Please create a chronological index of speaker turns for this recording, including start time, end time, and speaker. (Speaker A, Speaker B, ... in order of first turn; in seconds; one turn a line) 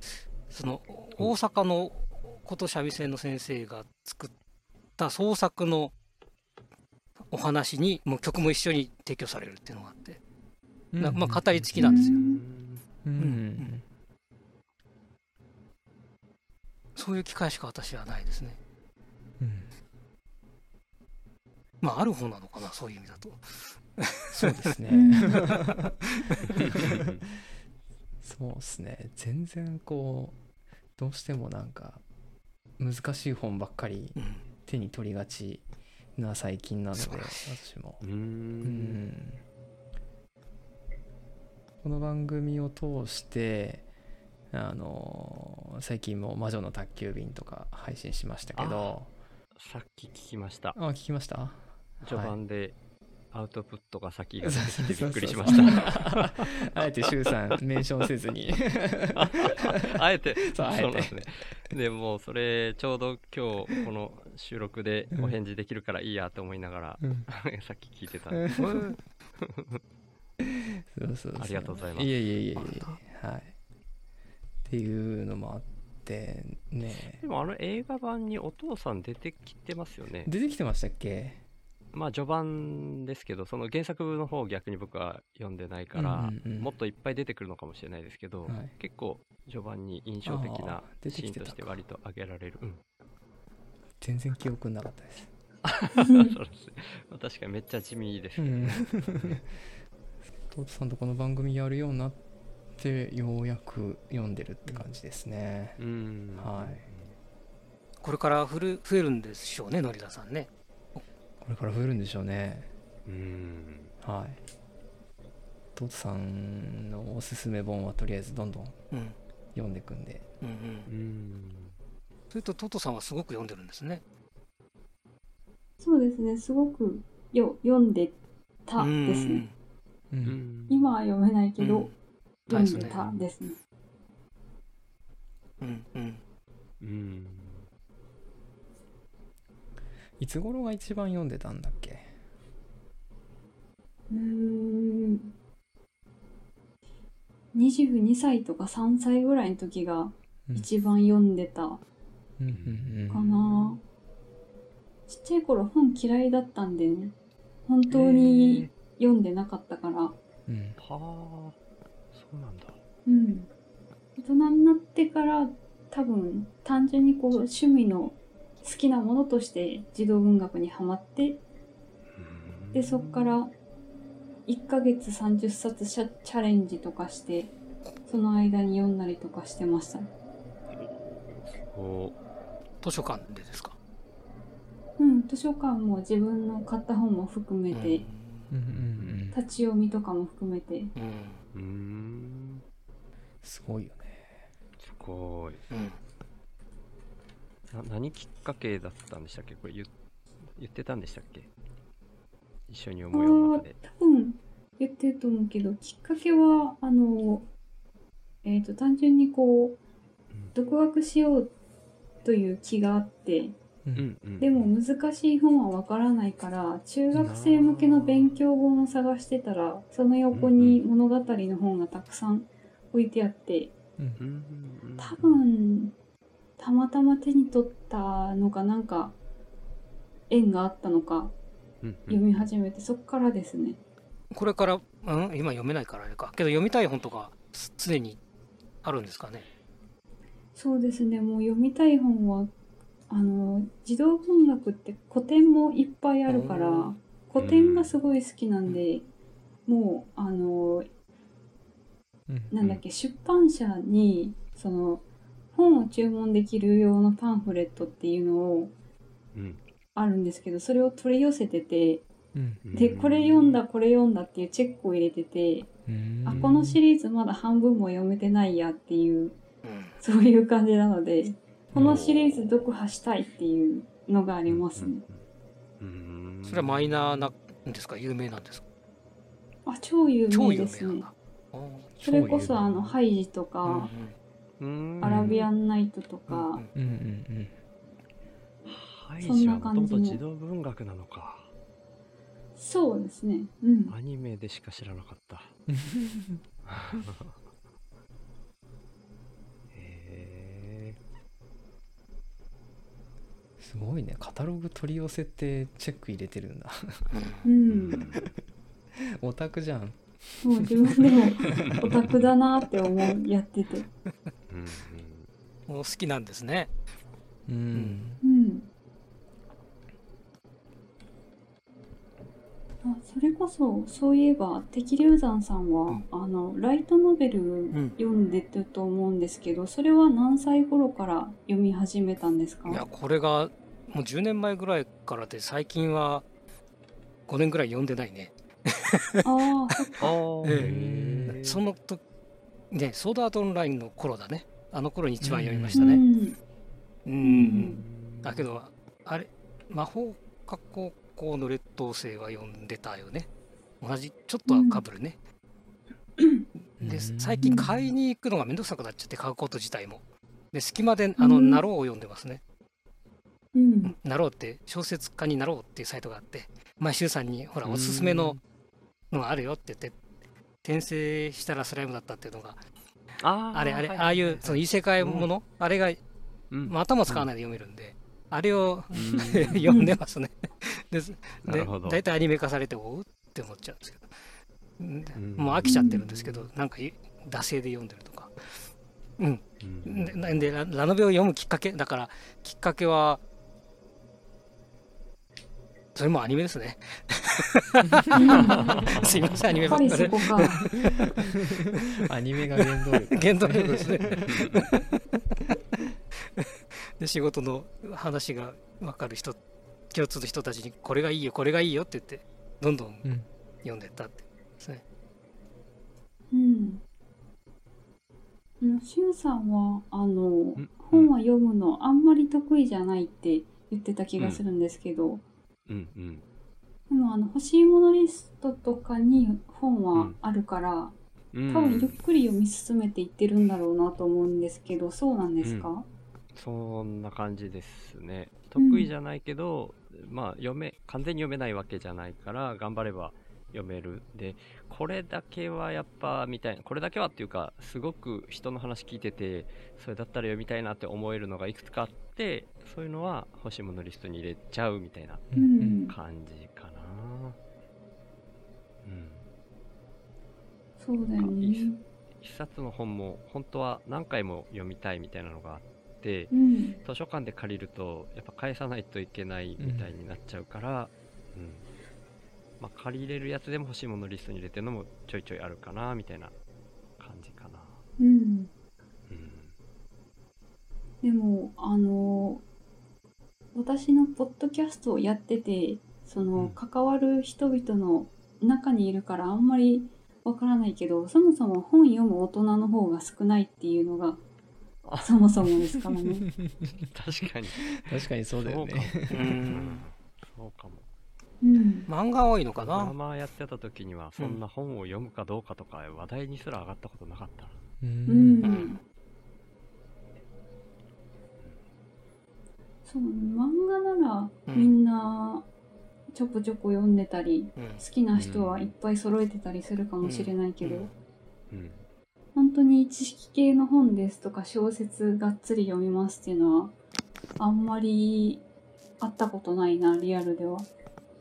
Speaker A: 0.5-4.3
Speaker A: 5.0-5.9
Speaker A: 7.3-10.2
Speaker B: 10.9-11.6
Speaker A: 11.0-12.2
Speaker C: 11.7-12.8
Speaker D: 11.8-12.4
Speaker B: 13.0-13.8
Speaker A: 13.2-13.7
Speaker A: 16.9-18.6
Speaker B: 19.4-19.7
Speaker A: 21.8-23.4
Speaker A: 24.0-24.7
Speaker B: 24.4-27.1
Speaker D: 24.9-25.4
Speaker A: 26.3-26.7
Speaker C: 26.9-27.2
Speaker B: 28.2-30.4
Speaker B: 31.0-32.0
Speaker B: 32.8-35.6
Speaker A: 34.1-34.4
Speaker B: 36.1-38.0
Speaker A: 36.9-37.5
Speaker C: 38.0-39.0
Speaker B: 38.6-39.4
Speaker B: 41.8-43.9
Speaker B: 44.5-49.1
Speaker C: 48.5-49.0
Speaker C: 49.5-50.8
Speaker B: 50.7-52.3
Speaker C: 52.0-52.8
Speaker C: 53.3-57.5
Speaker B: 54.4-59.9
Speaker D: 55.5-55.7
Speaker C: 59.1-68.8
Speaker B: 60.4-61.2
Speaker B: 67.0-67.3
Speaker B: 68.3-68.7
Speaker A: 68.5-69.0
Speaker C: 69.4-69.8
Speaker B: 70.6-73.5
Speaker C: 71.3-72.1
Speaker A: 72.5-73.0
Speaker B: 74.6-77.2
Speaker C: 76.8-80.3
Speaker B: 80.2-81.4
Speaker C: 81.9-92.8
Speaker B: 85.9-86.7
Speaker B: 88.5-88.7
Speaker B: 90.2-91.8
Speaker B: 94.0-95.3
Speaker C: 95.6-99.4
Speaker D: 96.0-96.3
Speaker B: 98.4-99.4
Speaker B: 100.5-102.2
Speaker B: 102.8-105.8
Speaker C: 105.8-107.1
Speaker B: 106.3-106.8
Speaker A: 108.0-111.0
Speaker B: 111.4-112.7
Speaker C: 113.0-113.9
Speaker B: 114.0-114.4
Speaker B: 115.7-118.8
Speaker A: 118.9-119.2
Speaker B: 119.5-120.3
Speaker A: 120.4-120.9
Speaker C: 120.9-121.7
Speaker A: 122.3-124.0
Speaker D: 125.8-128.2
Speaker D: 128.7-129.4
Speaker A: 128.8-129.5
Speaker B: 130.1-130.4
Speaker C: 130.2-130.9
Speaker D: 130.7-131.9
Speaker A: 131.6-131.9
Speaker A: 132.5-133.0
Speaker D: 132.5-133.6
Speaker C: 132.9-133.2
Speaker A: 135.6-136.2
Speaker C: 136.8-137.7
Speaker B: 140.2-142.1
Speaker D: 144.1-145.3
Speaker D: 147.5-151.8
Speaker B: 152.4-153.3
Speaker C: 152.5-153.8
Speaker D: 153.1-153.8
Speaker D: 155.1-157.1
Speaker D: 157.7-160.2
Speaker C: 157.9-158.7
Speaker B: 160.5-160.8
Speaker C: 160.8-161.6
Speaker C: 162.1-162.8
Speaker D: 163.1-163.5
Speaker D: 164.2-171.4
Speaker C: 172.1-173.3
Speaker D: 172.7-173.5
Speaker D: 174.5-177.5
Speaker D: 178.1-180.1
Speaker C: 180.7-182.2
Speaker A: 182.8-183.7
Speaker D: 185.0-188.0
Speaker A: 187.7-188.5
Speaker B: 188.5-189.4
Speaker C: 188.7-189.2
Speaker D: 189.3-190.9
Speaker A: 190.9-191.4
Speaker C: 191.5-192.6
Speaker B: 193.4-194.4
Speaker C: 194.8-195.6
Speaker A: 195.7-196.0
Speaker C: 197.7-199.9
Speaker C: 200.5-201.5
Speaker C: 202.7-203.8
Speaker D: 203.1-207.5
Speaker D: 208.4-209.8
Speaker D: 210.5-211.5
Speaker D: 212.2-213.5
Speaker C: 213.9-214.7
Speaker D: 214.4-223.7
Speaker C: 217.1-218.4
Speaker C: 220.3-220.8
Speaker C: 224.2-225.4
Speaker D: 225.0-225.9
Speaker D: 226.6-229.1
Speaker D: 230.3-231.3
Speaker C: 231.8-232.5
Speaker D: 232.1-233.8
Speaker A: 234.3-238.2
Speaker A: 238.8-239.5
Speaker D: 240.5-242.5
Speaker D: 243.1-249.1
Speaker A: 246.3-246.9
Speaker C: 247.4-247.9
Speaker D: 249.7-250.9
Speaker D: 252.5-258.7
Speaker C: 259.3-259.6
Speaker D: 259.9-262.0
Speaker B: 262.3-262.6
Speaker C: 262.6-263.6
Speaker D: 262.7-265.7
Speaker B: 265.9-266.8
Speaker D: 266.2-269.4
Speaker A: 269.6-270.0
Speaker D: 270.0-275.0
Speaker B: 271.7-272.0
Speaker C: 271.7-272.5
Speaker C: 274.5-275.2
Speaker C: 275.8-277.3
Speaker A: 276.4-278.6
Speaker D: 279.6-281.1
Speaker A: 280.3-281.9
Speaker B: 282.0-282.9
Speaker D: 282.0-283.9
Speaker A: 283.6-284.1
Speaker C: 284.6-285.5
Speaker D: 285.0-286.6
Speaker B: 285.0-285.3
Speaker A: 286.3-286.7
Speaker B: 286.7-287.6
Speaker C: 288.6-291.5
Speaker D: 289.2-290.2
Speaker D: 292.6-293.9
Speaker C: 293.9-295.5
Speaker B: 295.7-296.4
Speaker C: 296.6-297.4
Speaker C: 299.7-301.0
Speaker B: 303.6-307.1
Speaker A: 307.1-307.5
Speaker D: 307.4-308.1
Speaker C: 307.7-308.2
Speaker B: 309.0-311.8
Speaker D: 310.4-313.9
Speaker C: 314.5-315.3
Speaker A: 315.7-316.7
Speaker B: 317.5-318.2
Speaker A: 317.7-318.0
Speaker D: 318.2-318.7
Speaker D: 322.8-332.8
Speaker A: 327.7-327.9
Speaker A: 332.7-336.2
Speaker A: 337.3-339.2
Speaker D: 339.2-340.1
Speaker C: 340.0-341.6
Speaker A: 340.4-340.7
Speaker B: 340.5-341.4
Speaker A: 341.4-342.0
Speaker A: 342.7-346.0
Speaker B: 345.2-345.8
Speaker D: 345.7-346.4
Speaker A: 347.0-353.3
Speaker D: 347.2-347.8
Speaker C: 347.6-348.5
Speaker A: 353.8-355.1
Speaker D: 354.5-354.8
Speaker D: 356.2-356.4
Speaker A: 356.8-362.4
Speaker B: 356.8-357.9
Speaker D: 361.2-361.6
Speaker D: 363.5-363.9
Speaker A: 363.8-368.4
Speaker C: 367.6-368.4
Speaker A: 369.1-369.9
Speaker A: 370.6-372.6
Speaker C: 373.2-375.3
Speaker A: 373.5-376.0
Speaker C: 376.5-377.3
Speaker A: 376.6-384.1
Speaker C: 378.9-379.7
Speaker D: 379.7-380.0
Speaker C: 381.4-382.0
Speaker A: 384.8-388.4
Speaker C: 385.1-386.5
Speaker D: 385.6-386.0
Speaker A: 389.2-393.2
Speaker C: 389.6-390.5
Speaker A: 395.9-400.4
Speaker D: 398.1-398.9
Speaker C: 398.8-399.9
Speaker D: 399.6-400.6
Speaker B: 400.7-404.8
Speaker A: 401.7-401.9
Speaker A: 402.6-404.8
Speaker C: 404.3-404.6
Speaker A: 407.0-409.4
Speaker A: 409.9-413.1
Speaker A: 413.6-414.8
Speaker D: 416.3-416.8
Speaker D: 418.6-425.2
Speaker C: 420.6-421.1
Speaker C: 424.2-424.4
Speaker C: 425.7-426.2
Speaker D: 426.9-430.9
Speaker C: 431.3-432.0
Speaker D: 431.5-435.9
Speaker C: 435.4-435.7
Speaker C: 436.3-457.4
Speaker D: 438.6-438.9
Speaker B: 455.3-455.8
Speaker D: 455.4-455.9
Speaker C: 458.8-459.2
Speaker D: 460.8-461.8
Speaker C: 461.0-471.6
Speaker D: 466.3-466.8
Speaker B: 469.6-469.9
Speaker C: 472.6-476.3
Speaker C: 477.0-477.8
Speaker D: 478.0-478.5
Speaker C: 479.1-479.5
Speaker D: 481.0-482.4
Speaker D: 483.5-494.2
Speaker C: 494.8-495.5
Speaker D: 495.0-496.2
Speaker C: 496.8-500.8
Speaker B: 497.8-499.4
Speaker A: 499.1-499.8
Speaker D: 501.4-501.9
Speaker A: 501.9-502.9
Speaker C: 502.6-507.6
Speaker B: 507.8-508.5
Speaker D: 508.1-508.8
Speaker A: 508.4-508.7
Speaker D: 512.9-515.5
Speaker A: 514.5-514.7
Speaker D: 516.1-520.9
Speaker A: 517.5-517.8
Speaker C: 518.1-518.7
Speaker A: 520.0-520.9
Speaker C: 521.5-521.8
Speaker D: 522.3-526.7
Speaker D: 527.4-528.4
Speaker D: 529.0-530.7